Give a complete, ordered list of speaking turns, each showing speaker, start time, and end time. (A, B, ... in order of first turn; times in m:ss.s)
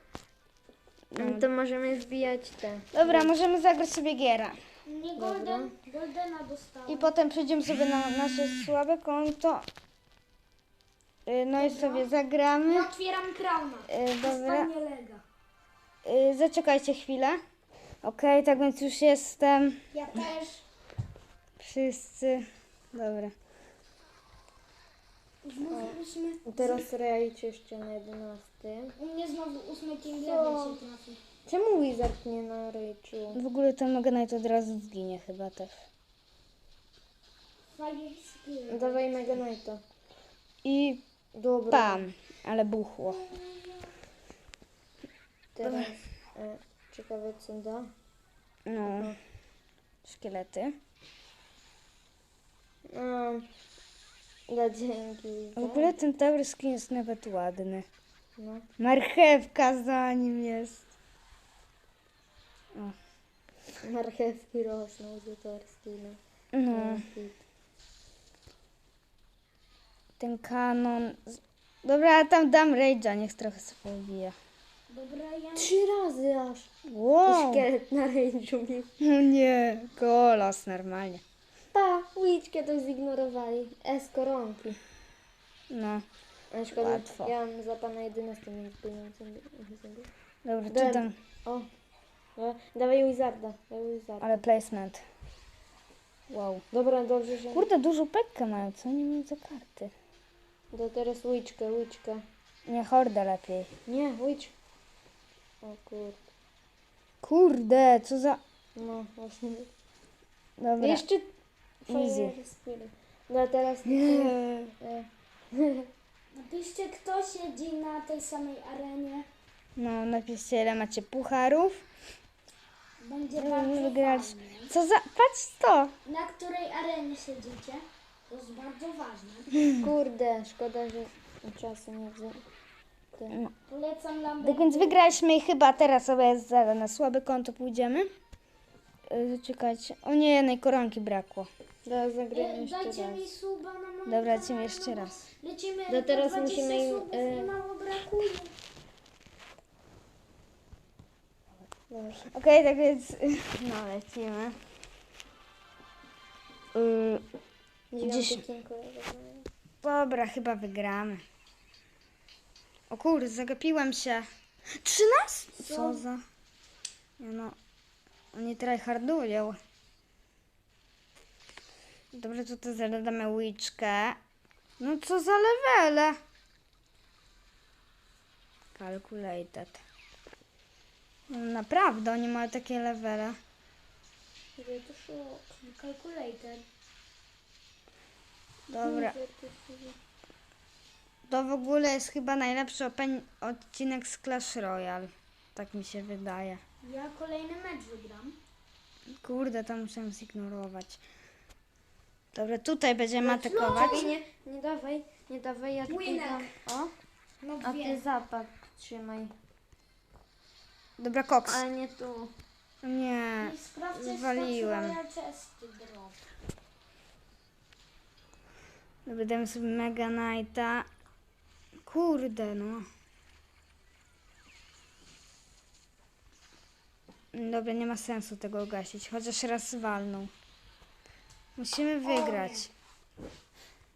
0:01.1-0:01.5 A
0:01.2-0:03.3 B
0:02.9-0:04.6 A
0:04.9-0:07.1 C
0:05.2-0:05.7 B
0:06.9-0:09.7 A
0:11.3-0:12.9 A
0:11.6-0:12.1 C
0:12.6-0:15.2 C
0:13.9-0:14.7 A
0:16.0-0:17.4 A
0:18.0-0:20.3 A
0:19.9-0:20.6 C
0:21.6-0:23.4 A
0:25.4-0:26.9 C
0:25.7-0:28.9 B
0:29.0-0:31.2 C
0:30.2-0:30.8 B
0:31.5-0:33.4 B
0:33.3-0:35.8 A
0:37.7-0:39.4 C
0:38.7-0:39.8 B
0:40.6-0:41.0 A
0:41.4-0:42.1 B
0:41.7-0:43.3 A
0:43.1-0:43.9 C
0:45.6-0:47.9 B
0:45.6-0:45.9 A
0:48.7-0:49.2 A
0:48.8-0:49.2 B
0:50.0-0:50.8 A
0:52.9-0:53.5 B
0:54.5-0:56.0 B
0:55.6-0:57.9 A
0:58.4-0:58.7 B
0:58.8-1:00.9 A
1:03.8-1:07.4 B
1:06.5-1:07.0 A
1:10.2-1:14.4 A
1:14.9-1:15.7 C
1:15.6-1:16.7 B
1:16.8-1:17.6 A
1:17.2-1:18.9 B
1:19.0-1:21.2 A
1:21.7-1:24.8 B
1:25.7-1:26.0 A
1:26.5-1:30.1 B
1:26.8-1:27.3 A
1:30.4-1:31.2 A
1:30.7-1:31.7 B
1:32.4-1:34.4 B
1:34.2-1:35.0 A
1:36.3-1:36.6 A
1:36.7-1:37.7 B
1:37.5-1:39.9 A
1:40.7-1:42.2 B
1:42.7-1:43.7 A
1:43.9-1:44.6 B
1:45.6-1:46.2 B
1:47.2-1:48.4 A
1:48.8-1:49.7 B
1:50.6-1:51.0 A
1:50.8-1:51.3 B
1:51.8-1:55.9 B
1:51.9-1:52.4 A
1:53.9-1:54.7 A
1:56.3-1:59.3 C
1:59.8-2:01.8 A
2:03.0-2:04.7 C
2:03.4-2:05.9 A
2:06.0-2:09.5 C
2:09.8-2:12.4 B
2:13.1-2:13.4 B
2:13.6-2:15.1 C
2:14.4-2:18.1 A
2:19.1-2:21.5 A
2:21.8-2:23.3 B
2:22.3-2:28.5 C
2:24.1-2:25.2 A
2:25.9-2:27.5 B
2:31.9-2:32.3 B
2:32.3-2:34.6 A
2:36.7-2:37.2 A
2:37.9-2:39.5 B
2:38.0-2:38.4 A
2:39.8-2:41.2 A
2:42.9-2:46.2 A
2:47.2-2:47.6 A
2:48.3-2:49.6 A
2:52.1-2:54.2 A
2:54.8-2:56.2 A
2:58.8-2:59.8 A
3:01.3-3:03.4 A
3:04.6-3:05.6 B
3:05.6-3:06.6 C
3:08.7-3:09.2 A
3:08.8-3:10.0 B
3:11.3-3:16.6 A
3:16.8-3:18.4 C
3:19.2-3:21.0 A
3:22.3-3:24.1 A
3:23.2-3:26.9 B
3:23.3-3:24.1 C
3:25.9-3:26.5 C
3:27.4-3:28.0 C
3:27.6-3:29.3 B
3:31.0-3:31.6 A
3:31.5-3:32.3 B
3:32.8-3:35.0 A
3:33.4-3:36.2 C
3:39.1-3:40.9 A
3:41.8-3:42.9 A
3:47.3-3:50.3 A
3:51.6-3:52.7 A
3:52.0-3:52.7 C